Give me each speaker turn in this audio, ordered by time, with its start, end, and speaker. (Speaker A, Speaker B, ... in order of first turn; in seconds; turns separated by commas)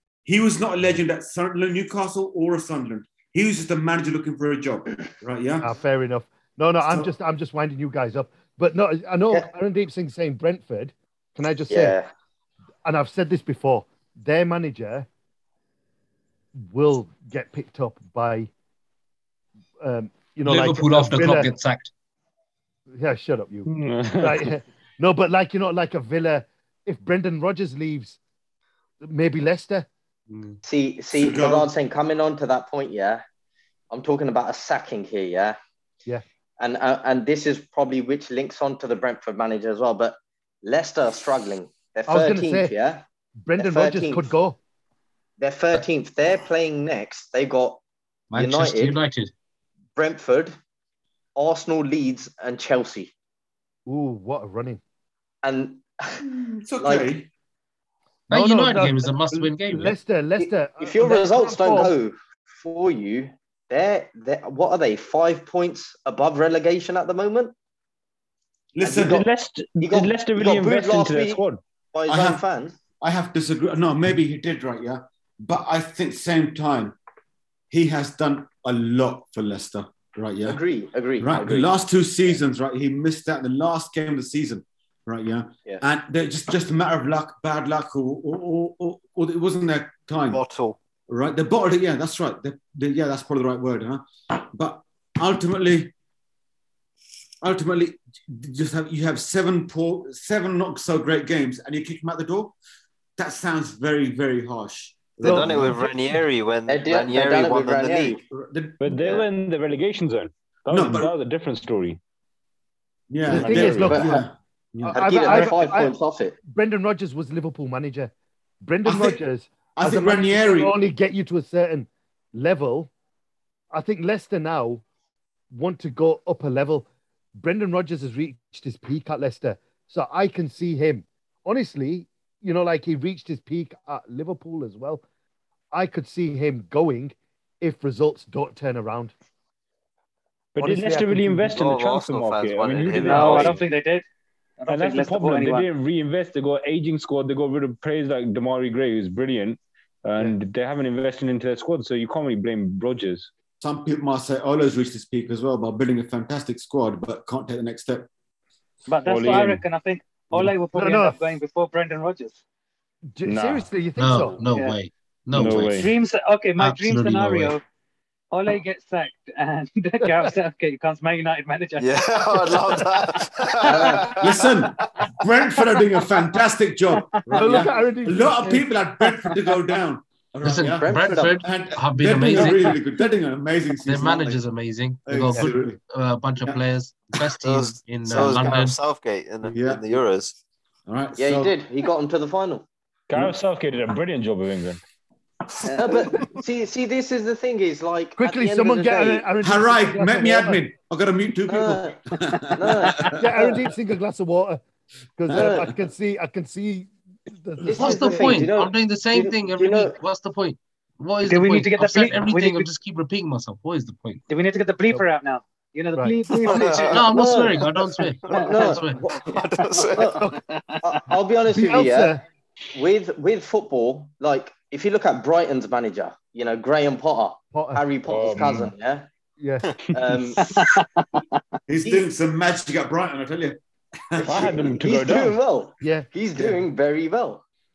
Speaker A: 0.2-5.7, Speaker B: 5.6-12.0, Speaker C: 11.7-12.1, Speaker B: 12.8-15.1, Speaker B: 16.6-18.5, Speaker B: 19.8-21.5, Speaker D: 20.4-21.9, Speaker B: 23.0-28.2, Speaker E: 23.6-24.5, Speaker B: 29.0-29.9, Speaker D: 30.3-30.6, Speaker C: 30.6-33.2, Speaker A: 31.1-31.7, Speaker C: 33.9-35.6, Speaker C: 36.6-43.0, Speaker B: 42.1-42.7, Speaker B: 43.4-44.6, Speaker C: 43.6-44.3, Speaker C: 45.4-47.8, Speaker D: 48.3-49.3, Speaker C: 48.3-49.0, Speaker C: 50.0-50.5, Speaker C: 51.4-53.1, Speaker B: 53.9-54.8, Speaker C: 55.4-56.2, Speaker A: 56.2-57.3, Speaker C: 56.8-57.1, Speaker D: 58.3-59.9, Speaker B: 58.3-61.9, Speaker C: 60.8-67.5, Speaker A: 68.7-69.2, Speaker C: 68.8-69.2, Speaker E: 69.0-71.6, Speaker C: 69.8-72.7, Speaker A: 72.1-72.4, Speaker A: 73.0-77.0, Speaker A: 77.7-80.6, Speaker C: 80.4-81.7, Speaker A: 81.2-90.4, Speaker F: 90.3-90.8, Speaker A: 91.1-95.9, Speaker A: 97.4-102.5, Speaker A: 103.2-105.8, Speaker B: 105.2-105.5, Speaker F: 105.2-108.2, Speaker C: 106.7-108.2, Speaker A: 108.2-108.9, Speaker E: 108.8-112.0, Speaker C: 108.9-109.2, Speaker A: 110.7-111.1, Speaker A: 113.1-115.0, Speaker B: 113.3-114.0, Speaker E: 113.3-114.0, Speaker C: 113.9-114.2, Speaker B: 114.8-115.9, Speaker C: 114.9-116.4, Speaker B: 116.4-122.9, Speaker A: 118.8-119.2, Speaker A: 119.8-120.7, Speaker B: 123.7-124.8, Speaker B: 125.5-135.0, Speaker B: 135.7-139.1, Speaker E: 140.5-143.6, Speaker B: 140.6-141.5, Speaker F: 141.4-143.6, Speaker G: 142.9-144.0, Speaker G: 144.6-145.7, Speaker E: 144.7-153.3, Speaker A: 153.6-158.1, Speaker G: 158.9-162.4, Speaker E: 159.0-159.6, Speaker B: 160.8-161.2, Speaker B: 163.1-164.4, Speaker E: 163.2-163.7, Speaker D: 164.0-165.9, Speaker G: 164.4-164.8, Speaker E: 165.3-165.9, Speaker G: 165.4-167.6, Speaker D: 166.6-167.5, Speaker G: 168.3-173.1, Speaker F: 171.8-174.7, Speaker C: 173.6-174.1, Speaker A: 174.2-184.4, Speaker G: 177.1-177.7, Speaker B: 177.3-178.6, Speaker G: 179.0-179.4, Speaker D: 180.4-182.8, Speaker C: 180.6-181.4, Speaker D: 183.8-188.8, Speaker A: 185.1-185.8, Speaker F: 187.4-190.4, Speaker A: 189.4-189.9, Speaker A: 190.9-191.5, Speaker C: 191.2-192.7, Speaker E: 193.1-194.8, Speaker C: 195.6-199.2, Speaker B: 198.2-200.6, Speaker A: 199.4-203.2, Speaker C: 201.5-202.0, Speaker C: 202.5-203.2, Speaker B: 203.1-204.6, Speaker B: 205.2-208.3, Speaker A: 205.3-205.6, Speaker C: 205.3-205.7, Speaker C: 207.7-209.9, Speaker D: 207.7-214.2, Speaker G: 211.2-212.7, Speaker G: 214.3-217.4, Speaker F: 216.4-217.1, Speaker D: 216.8-219.0, Speaker C: 217.1-217.6, Speaker F: 217.6-220.3, Speaker G: 218.3-218.7, Speaker C: 218.4-219.1, Speaker G: 220.0-221.0, Speaker C: 220.8-222.1, Speaker B: 221.5-222.2, Speaker C: 222.7-229.1, Speaker B: 227.5-227.8, Speaker E: 228.1-228.7, Speaker B: 229.4-229.7, Speaker C: 229.9-230.5, Speaker G: 230.4-231.4, Speaker A: 231.7-234.6, Speaker C: 234.2-237.4, Speaker E: 234.2-235.4, Speaker B: 235.8-236.5